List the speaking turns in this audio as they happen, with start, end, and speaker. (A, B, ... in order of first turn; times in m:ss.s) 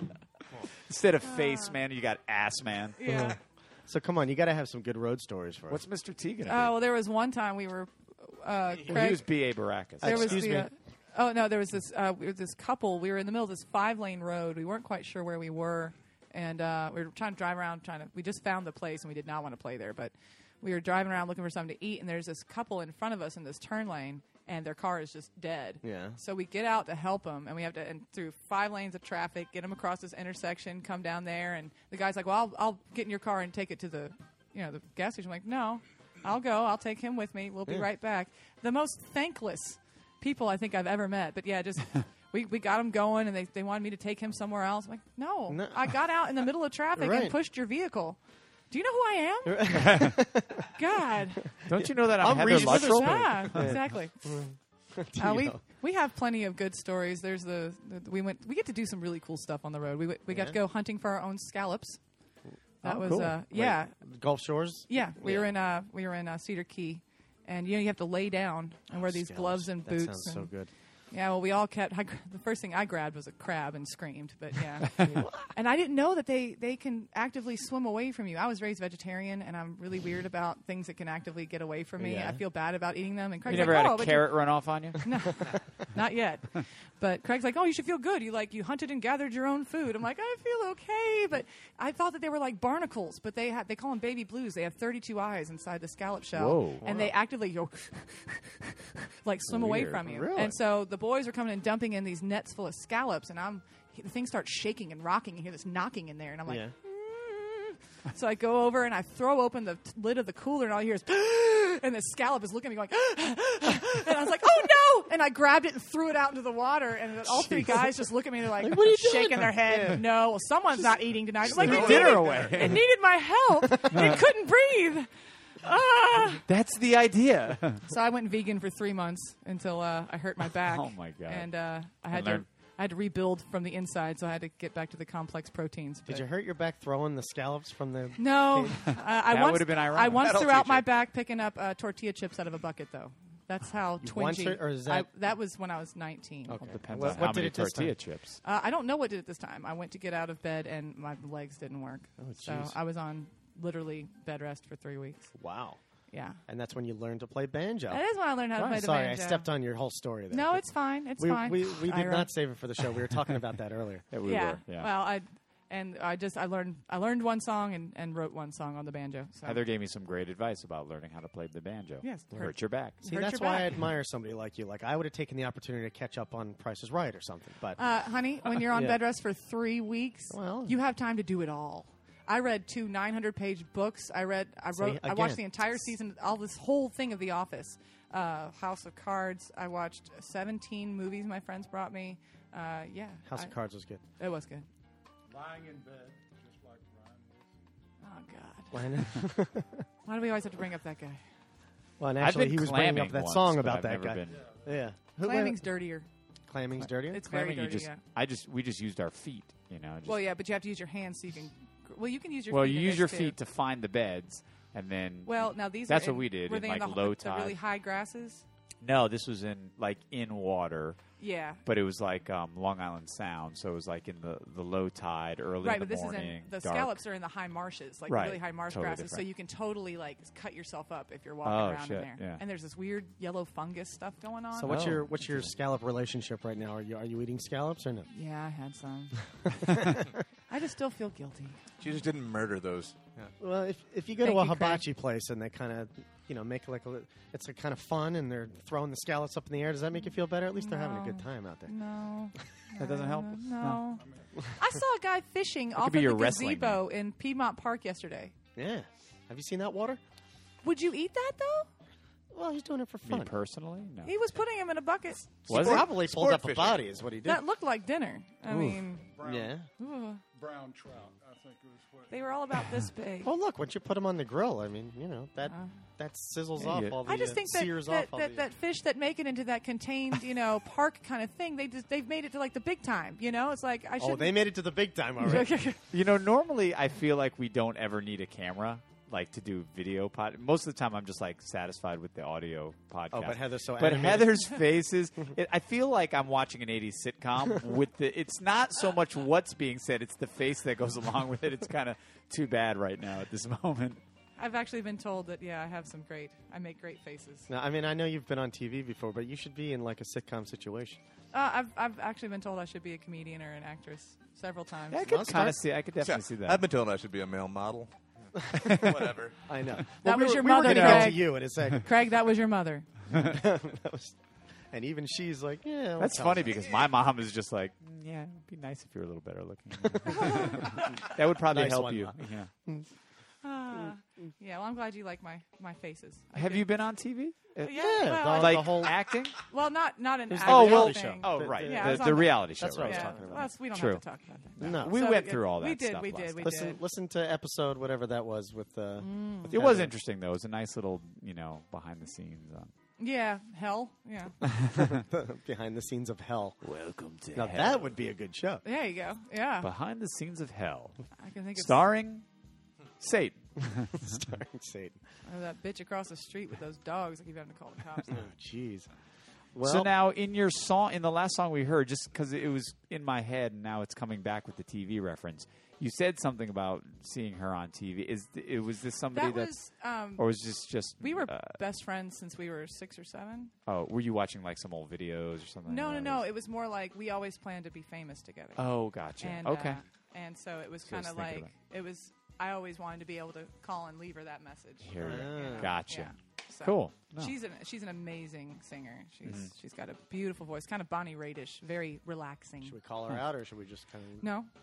0:00.9-0:03.0 A
0:01.3-0:01.8 B
0:03.0-0:03.4 B
0:03.0-0:05.8 C
0:05.7-0:06.8 A
0:06.5-0:09.3 B
0:08.9-0:10.6 A
0:10.0-0:10.7 C
0:10.0-0:48.2 B
0:25.8-0:26.2 C
0:45.5-0:45.9 C
0:47.0-0:47.4 C
0:48.7-0:50.1 B
0:49.4-0:50.7 C
0:49.7-0:50.2 A
0:50.7-0:51.5 B
0:51.6-0:55.6 C
0:51.7-0:53.8 A
0:52.3-0:54.2 B
0:55.2-1:02.0 B
1:00.3-1:00.6 C
1:02.8-1:03.4 A
1:02.8-1:04.0 B
1:03.0-1:05.5 C
1:04.9-1:10.5 B
1:08.9-1:10.7 C
1:11.1-1:24.4 B
1:15.0-1:15.5 C
1:22.0-1:22.4 C
1:23.5-1:25.0 A
1:23.5-1:23.8 C
1:25.0-2:05.1 B
1:36.4-1:36.8 A
1:36.8-1:37.1 C
1:39.5-1:40.0 A
1:40.0-1:40.6 C
1:46.5-1:46.7 C
1:57.3-1:57.8 C
1:58.6-2:00.0 C
2:01.4-2:02.7 C
2:01.4-2:02.8 A
2:01.5-2:02.7 D
2:03.8-2:04.1 C
2:03.9-2:04.2 A
2:05.6-2:06.4 B
2:06.5-2:07.8 A
2:07.9-2:16.3 B
2:10.6-2:11.5 A
2:12.1-2:12.5 A
2:16.1-2:18.8 C
2:18.2-2:26.8 B
2:18.9-2:20.5 A
2:20.2-2:20.8 D
2:24.0-2:25.1 C
2:26.5-2:28.0 C
2:26.6-2:28.4 A
2:28.4-2:35.3 B
2:32.2-2:32.8 C
2:35.4-2:35.8 C
2:36.1-2:36.4 B
2:36.5-2:40.6 C
2:37.9-2:39.5 B
2:40.3-2:42.3 B
2:41.2-2:44.1 C
2:44.1-2:44.9 A
2:44.2-2:49.6 B
2:49.4-2:53.0 A
2:52.0-2:53.7 B
2:53.0-2:57.8 C
2:57.8-3:13.6 B
2:58.5-2:59.0 C
3:00.3-3:00.8 C
3:04.7-3:05.5 C
3:13.3-3:14.0 C
3:14.2-3:14.7 B
3:15.3-3:17.6 E
3:18.0-3:19.1 B
3:18.7-3:19.9 C
3:20.1-3:21.2 B
3:22.0-3:25.6 C
3:22.2-3:24.4 A
3:24.3-3:24.8 E
3:25.2-3:26.1 B
3:26.5-3:27.3 C
3:26.8-3:30.3 A
3:27.1-3:28.0 B
3:30.0-3:33.4 B
3:32.5-3:37.6 A
3:35.3-3:38.4 B
3:38.8-3:41.0 A
3:41.2-3:41.6 B
3:41.6-3:47.0 A
3:45.6-3:54.8 B
3:48.1-3:49.3 A
3:51.4-3:52.4 A
3:54.5-3:58.1 C
3:54.7-3:55.5 A
3:58.1-3:59.2 B
3:59.4-4:00.1 C
4:00.5-4:01.6 B
4:01.8-4:03.3 D
4:03.4-4:11.7 C
4:04.2-4:04.8 B
4:10.6-4:18.3 B
4:12.8-4:14.0 A
4:14.0-4:14.3 E
4:15.8-4:16.8 A
4:18.6-4:20.0 C
4:20.6-4:21.7 B
4:22.3-4:23.4 C
4:23.1-4:24.2 A
4:24.0-4:25.4 B
4:25.5-4:27.4 C
4:25.5-4:25.9 A
4:25.5-4:27.0 D
4:27.2-4:29.1 B
4:28.5-4:29.6 C
4:29.1-4:29.6 E
4:29.8-4:30.2 B
4:30.2-4:32.4 E
4:32.1-4:33.3 B
4:33.2-4:38.5 C
4:35.5-4:35.7 B
4:36.6-4:37.0 A
4:37.0-4:44.4 B
4:44.0-4:45.5 C
4:45.2-4:45.8 B
4:45.9-5:04.0 A
4:53.1-4:54.6 C
5:04.4-5:07.5 B
5:07.5-5:11.0 C
5:11.3-5:15.0 B
5:14.9-5:16.7 A
5:15.0-5:15.6 C
5:16.0-5:19.4 D
5:19.5-5:21.9 C
5:20.0-5:22.9 B
5:20.4-5:21.4 A
5:23.1-5:24.2 C
5:24.7-5:26.7 C
5:26.0-5:32.5 A
5:30.0-5:31.0 B
5:31.4-5:32.9 C
5:33.4-5:36.7 B
5:36.4-5:39.4 A
5:37.6-5:38.9 B
5:37.7-5:39.0 C
5:39.5-5:46.8 B
5:40.3-5:43.5 C
5:40.5-5:44.0 A
5:44.6-5:46.6 A
5:44.6-5:45.0 C
5:46.4-5:49.9 C
5:49.0-5:49.5 B
5:49.5-5:52.7 A
5:53.0-5:54.4 B
5:54.6-5:54.9 A
5:54.6-5:56.6 C
5:56.6-5:57.9 A
5:57.3-5:58.6 C
5:58.6-5:59.7 B
5:59.6-6:01.0 A
6:01.2-6:01.8 B
6:01.6-6:02.2 A
6:03.0-6:04.2 A
6:03.9-6:05.0 C
6:05.2-6:08.1 B
6:08.1-6:08.9 C
6:09.5-6:09.9 C
6:09.6-6:19.5 A
6:19.1-6:20.3 B
6:20.2-6:21.6 A
6:21.0-6:23.5 B
6:23.7-6:26.3 A
6:25.7-6:42.8 B
6:28.6-6:29.8 A
6:30.9-6:31.5 A
6:34.8-6:36.1 A
6:35.0-6:35.8 C
6:36.6-6:37.4 A
6:39.2-6:39.5 A
6:42.6-6:44.3 C
6:44.2-6:44.5 B